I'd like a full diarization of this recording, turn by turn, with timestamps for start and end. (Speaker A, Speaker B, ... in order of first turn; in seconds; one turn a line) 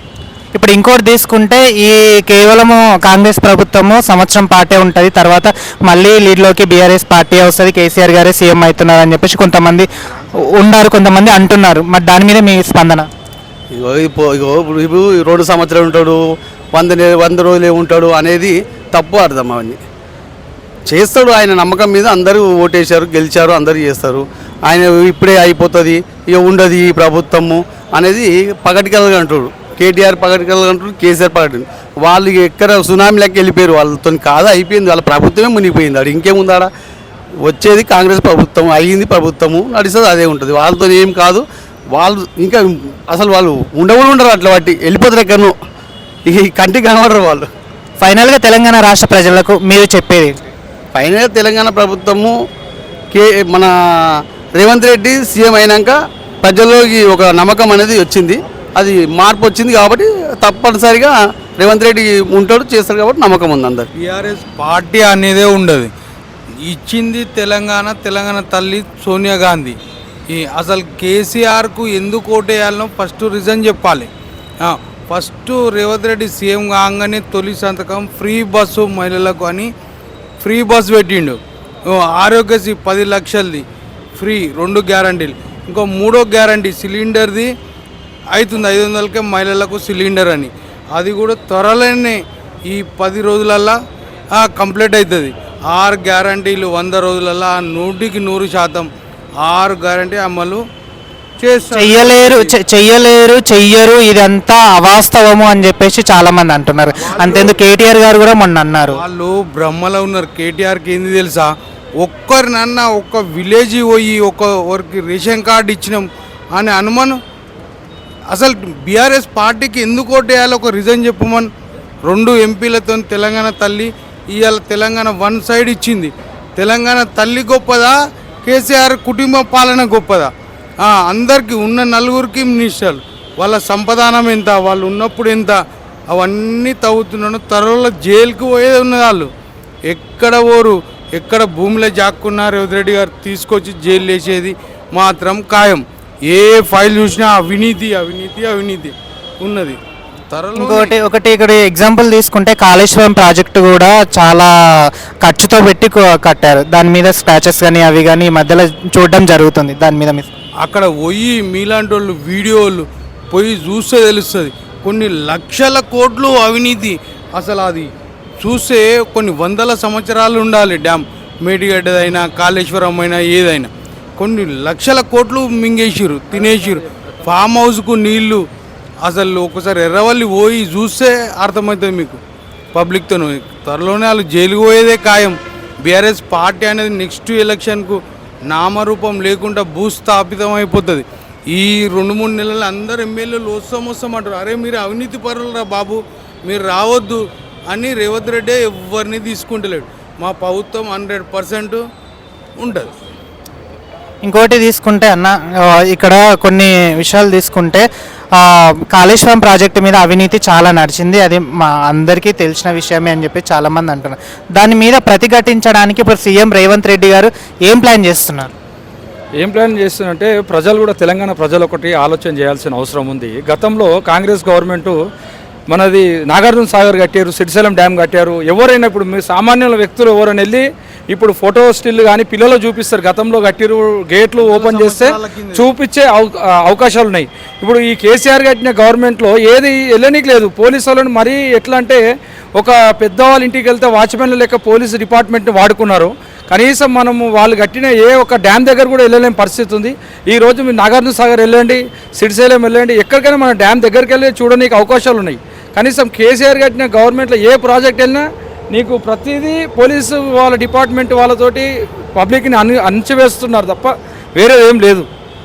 Speaker A: 0.5-9.9
Speaker A: 10.4-13.1
Speaker B: 13.7-16.2
Speaker B: 16.7-19.8
Speaker B: 20.9-36.7
Speaker B: 37.4-45.5
Speaker B: 46.3-47.5
Speaker A: 48.0-50.4
Speaker B: 50.9-52.3
Speaker B: 53.1-63.9
Speaker C: 64.0-65.9
Speaker C: 66.6-69.8
Speaker C: 70.3-74.1
Speaker C: 74.6-79.7
Speaker C: 80.4-83.6
Speaker C: 84.2-87.5
Speaker C: 88.3-93.8
Speaker C: 94.3-98.9
Speaker C: 99.4-100.6
Speaker C: 101.4-102.5
Speaker A: 101.7-109.0
Speaker C: 107.0-107.6
Speaker C: 108.9-117.2
Speaker C: 118.3-121.5
Speaker C: 122.0-130.3
Speaker C: 130.8-139.3
Speaker C: 139.9-149.8
Speaker C: 150.3-150.9
Speaker A: 150.6-160.3
Speaker C: 160.6-178.4
Speaker C: 179.0-182.2
Speaker C: 182.7-201.8
Speaker C: 202.6-202.9
Speaker A: 204.2-207.8
Speaker A: 208.3-218.5
Speaker D: 219.4-224.9
Speaker D: 225.7-242.0
Speaker C: 234.4-235.7
Speaker D: 242.6-265.1